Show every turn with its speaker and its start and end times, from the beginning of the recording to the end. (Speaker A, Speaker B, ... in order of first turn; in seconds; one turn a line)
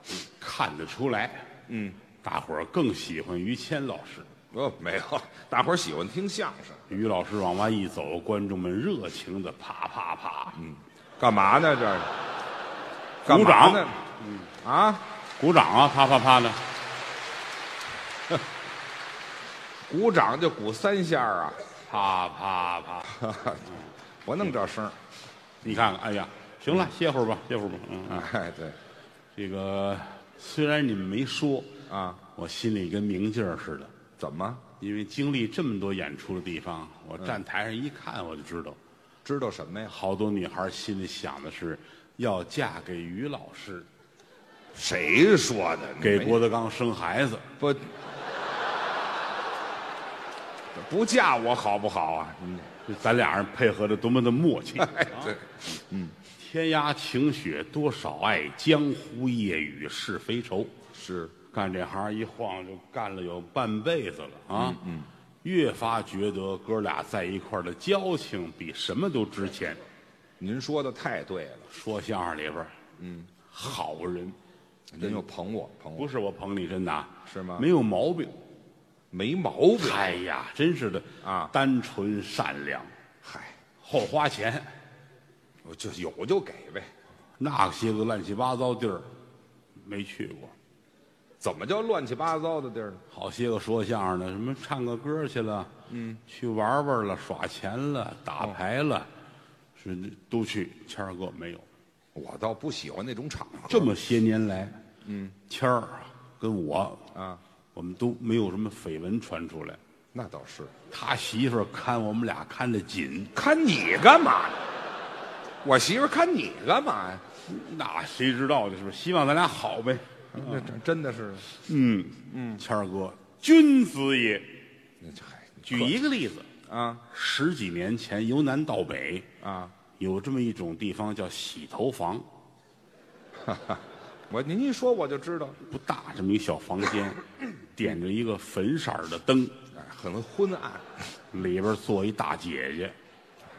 Speaker A: 0.2-1.5
Speaker B: 1.7-2.0
Speaker A: 2.2-4.3
Speaker B: 4.5-6.9
Speaker A: 6.9-10.6
Speaker B: 10.6-12.1
Speaker B: 13.2-13.9
Speaker A: 13.2-14.5
Speaker B: 14.6-15.0
Speaker A: 15.4-16.6
Speaker B: 19.9-21.6
Speaker A: 21.9-23.2
Speaker B: 23.1-23.7
Speaker B: 24.2-25.0
Speaker A: 25.6-28.2
Speaker B: 28.1-28.8
Speaker A: 29.3-31.7
Speaker B: 31.9-32.2
Speaker A: 32.3-33.9
Speaker B: 34.2-34.6
Speaker A: 34.8-38.8
Speaker B: 39.2-39.9
Speaker A: 39.9-43.9
Speaker B: 44.7-46.4
Speaker A: 46.0-47.5
Speaker B: 47.6-47.9
Speaker B: 50.7-52.7
Speaker A: 52.8-55.4
Speaker B: 54.8-56.1
Speaker A: 56.4-60.7
Speaker B: 60.9-61.3
Speaker A: 61.5-64.8
Speaker B: 64.5-65.1
Speaker A: 65.4-69.8
Speaker B: 70.4-71.7
Speaker A: 71.7-72.8
Speaker B: 73.0-73.3
Speaker A: 73.5-74.4
Speaker B: 74.9-76.1
Speaker A: 76.0-78.4
Speaker B: 77.3-77.7
Speaker B: 79.1-80.2
Speaker A: 79.8-82.9
Speaker B: 81.2-81.5
Speaker B: 83.2-83.6
Speaker A: 83.8-84.7
Speaker B: 85.6-86.9
Speaker A: 87.4-89.1
Speaker A: 89.8-90.5
Speaker B: 91.4-93.0
Speaker A: 93.1-95.7
Speaker B: 95.9-96.2
Speaker A: 96.2-99.1
Speaker A: 99.8-101.7
Speaker B: 102.1-103.9
Speaker A: 103.7-104.8
Speaker B: 105.0-105.4
Speaker A: 105.5-107.1
Speaker B: 107.1-107.4
Speaker A: 107.7-109.8
Speaker B: 110.1-110.7
Speaker A: 110.9-113.3
Speaker B: 113.3-114.6
Speaker B: 115.6-117.2
Speaker A: 117.5-120.7
Speaker B: 120.3-121.5
Speaker A: 121.5-124.5
Speaker B: 122.3-122.6
Speaker B: 125.0-126.0
Speaker A: 125.7-126.5
Speaker B: 126.7-127.0
Speaker A: 127.1-129.3
Speaker B: 129.4-129.7
Speaker A: 130.0-132.3
Speaker B: 133.4-135.6
Speaker A: 135.7-139.5
Speaker B: 139.7-141.1
Speaker A: 141.3-142.9